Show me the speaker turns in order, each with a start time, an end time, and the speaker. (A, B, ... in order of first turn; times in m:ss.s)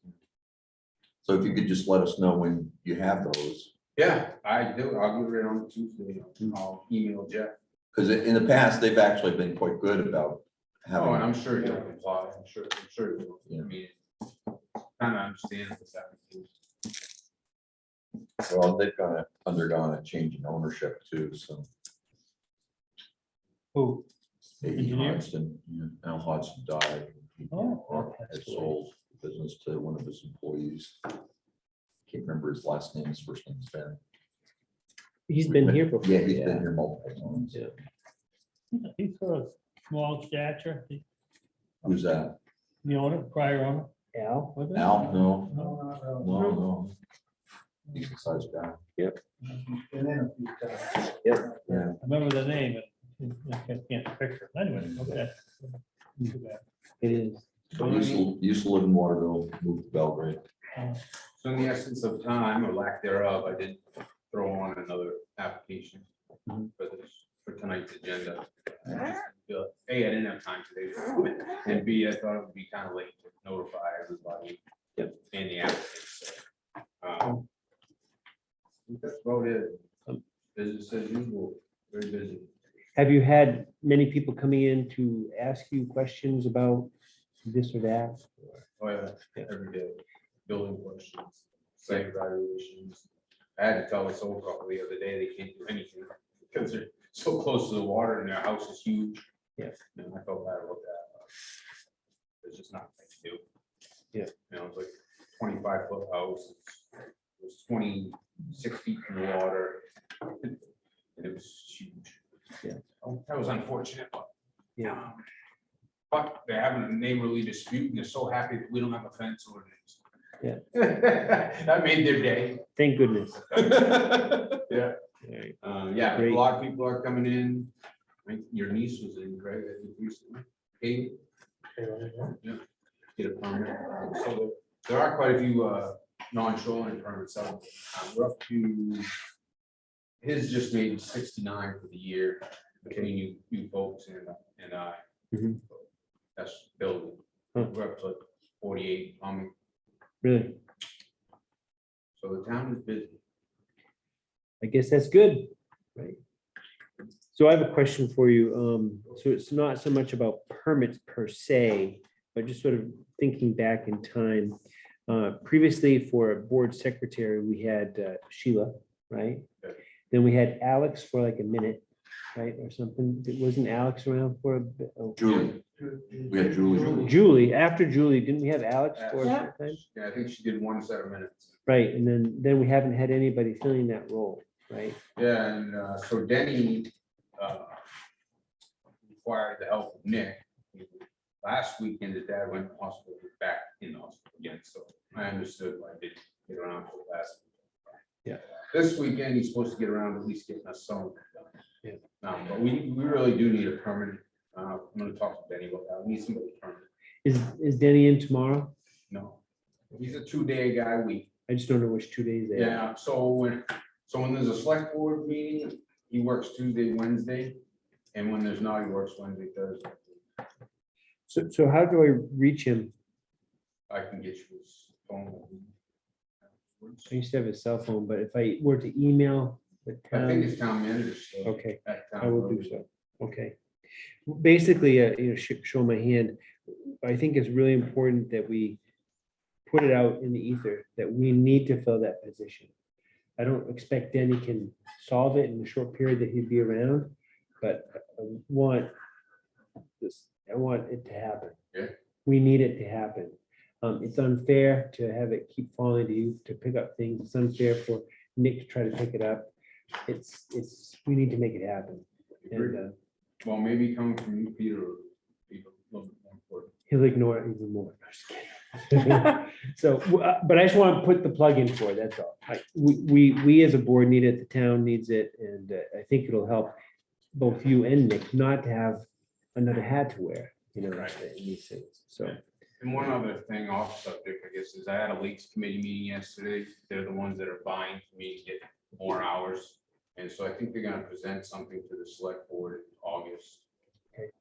0:01.2-0:03.7 A
0:04.0-0:07.6 B
0:07.9-0:11.4 A
0:10.9-0:13.9 B
0:15.0-0:16.5 B
0:18.4-0:21.7 A
0:23.7-0:24.0 C
0:24.6-0:31.1 A
0:24.7-0:25.2 D
0:27.5-0:28.0 D
0:27.8-0:28.7 C
0:32.1-0:34.0 A
0:35.3-0:36.7 C
0:35.4-0:37.7 A
0:38.7-0:41.0 D
0:41.8-0:42.4 A
0:42.8-0:43.9 D
0:44.1-0:44.6 C
0:44.5-0:45.9 D
0:44.7-0:46.9 A
0:47.9-0:48.8 A
0:51.2-0:51.6 C
0:51.6-0:52.0 A
0:52.0-0:56.6 D
0:57.0-0:58.0 C
0:57.7-1:00.4 A
0:57.7-0:58.3 B
1:00.7-1:01.0 D
1:01.4-1:06.1 B
1:06.7-1:16.4 B
1:17.0-1:17.4 B
1:18.9-1:19.8 B
1:20.5-1:22.5 B
1:23.0-1:26.9 C
1:27.4-1:28.6 C
1:28.8-1:39.3 B
1:39.9-1:41.3 B
1:42.4-1:43.4 B
1:44.5-1:50.6 B
1:51.2-1:52.2 B
1:53.0-1:55.2 B
1:56.1-2:00.0 B
2:00.7-2:02.6 B
2:02.8-2:03.8 C
2:03.5-2:04.9 B
2:05.2-2:05.6 C
2:05.6-2:07.7 B
2:06.1-2:06.5 C
2:08.2-2:11.2 B
2:12.2-2:12.6 B
2:13.2-2:19.1 B
2:20.2-2:25.0 B
2:25.3-2:25.6 C
2:26.4-2:29.5 B
2:30.2-2:30.6 C
2:32.2-2:33.2 B
2:34.6-2:36.2 C
2:37.3-2:49.5 C
2:50.1-2:55.2 C
2:55.2-2:57.1 A
2:56.9-2:59.8 C
2:59.0-3:01.6 B
3:01.6-3:05.0 C
3:05.2-3:07.8 B
3:09.1-3:17.5 B
3:18.7-3:21.5 B
3:22.2-3:26.9 B
3:27.2-3:28.7 C
3:29.1-3:31.3 B
3:31.5-3:32.8 C
3:32.5-3:37.6 B
3:38.1-3:40.2 B
3:41.3-3:42.9 C
3:43.9-3:45.7 B
3:46.6-3:47.1 B
3:47.1-3:50.6 C
3:50.1-3:52.8 B
3:51.4-3:53.6 C
3:54.3-3:58.8 C
3:59.7-4:02.7 C
4:03.4-4:08.9 C
4:10.0-4:11.6 C
4:12.2-4:19.5 C
4:20.0-4:22.9 C
4:22.4-4:22.8 B
4:23.4-4:26.7 B
4:26.9-4:36.7 C
4:37.3-4:39.0 C
4:39.5-4:42.4 C
4:40.9-4:41.2 B
4:42.2-4:53.6 B